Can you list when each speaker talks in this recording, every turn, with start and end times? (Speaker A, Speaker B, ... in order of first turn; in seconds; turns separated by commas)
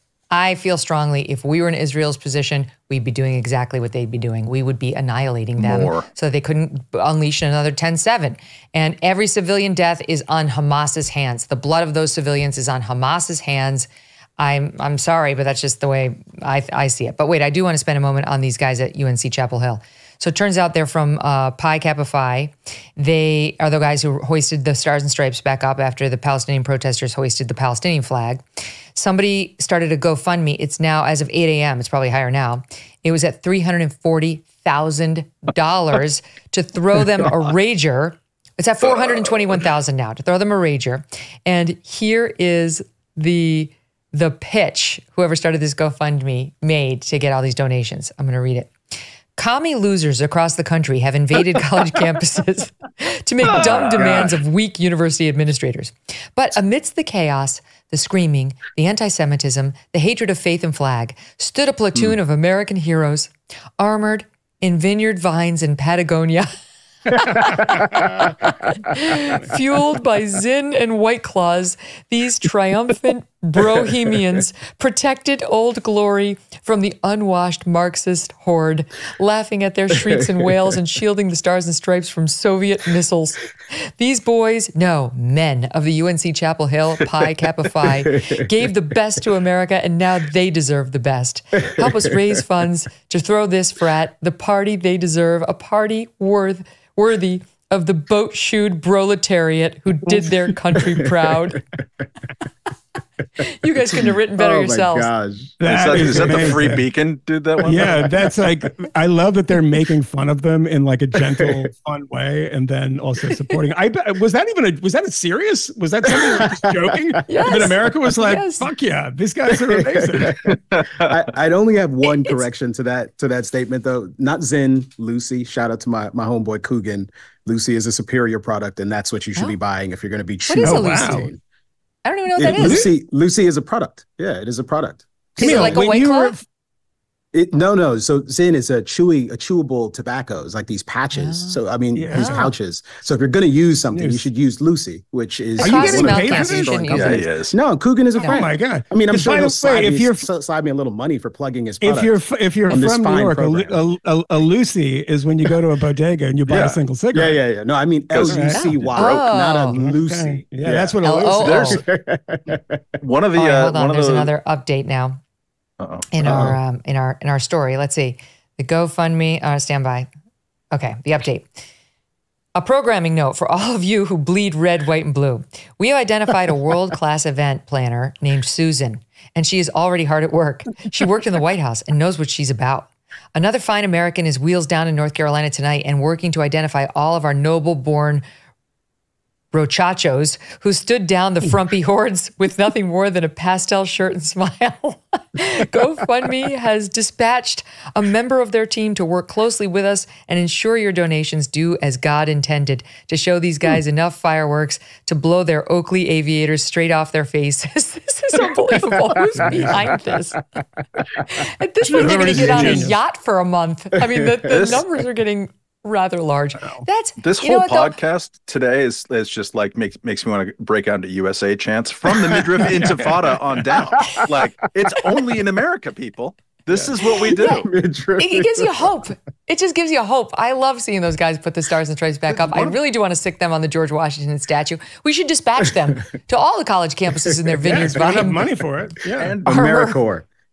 Speaker A: 0.3-28.4, Speaker B: 5.6-6.1, Speaker A: 28.9-48.7, Speaker B: 38.9-39.6, Speaker A: 49.4-66.5, Speaker B: 53.5-54.4, Speaker A: 67.1-83.5, Speaker A: 84.0-101.6, Speaker C: 87.9-88.4, Speaker C: 91.7-91.9, Speaker C: 100.8-101.1, Speaker A: 103.4-105.1, Speaker C: 103.9-106.7, Speaker D: 105.6-106.8, Speaker B: 105.6-108.1, Speaker D: 107.6-120.4, Speaker C: 107.7-108.0, Speaker C: 111.2-111.6, Speaker C: 116.2-117.1, Speaker A: 117.3-118.7, Speaker C: 119.5-131.4, Speaker B: 120.7-121.1, Speaker A: 122.0-122.4, Speaker A: 130.5-131.3, Speaker D: 130.6-131.3, Speaker A: 132.1-132.9, Speaker C: 132.4-135.8, Speaker D: 132.5-132.9, Speaker D: 135.4-136.4, Speaker A: 135.4-136.3, Speaker C: 137.3-152.1, Speaker A: 141.2-141.6, Speaker D: 141.9-142.5, Speaker A: 142.1-142.4, Speaker D: 143.9-144.2, Speaker D: 145.6-146.8, Speaker A: 145.6-147.2, Speaker B: 146.9-147.5, Speaker D: 148.2-150.3, Speaker D: 151.8-157.4, Speaker C: 152.7-153.8, Speaker B: 156.5-156.8, Speaker C: 156.6-161.0, Speaker B: 158.1-159.1, Speaker D: 158.3-158.6, Speaker A: 158.5-159.8, Speaker D: 159.8-161.7, Speaker A: 161.0-161.8, Speaker B: 161.4-161.8, Speaker C: 161.5-162.8, Speaker B: 163.0-164.3, Speaker A: 163.4-165.2, Speaker B: 165.8-166.1, Speaker A: 166.1-170.1, Speaker C: 166.2-166.6, Speaker A: 170.7-171.5, Speaker A: 172.6-188.2, Speaker A: 189.5-210.4, Speaker C: 209.2-209.8, Speaker D: 209.4-210.0, Speaker A: 211.2-217.9, Speaker D: 211.9-213.0, Speaker C: 211.9-213.0, Speaker C: 214.1-214.8, Speaker B: 214.5-214.8, Speaker B: 217.2-227.7, Speaker C: 222.1-223.0, Speaker C: 224.0-224.3, Speaker C: 227.0-228.9, Speaker A: 228.2-238.4, Speaker C: 237.3-238.3, Speaker D: 237.6-239.4, Speaker B: 239.2-239.5, Speaker C: 239.4-240.3, Speaker A: 239.5-239.9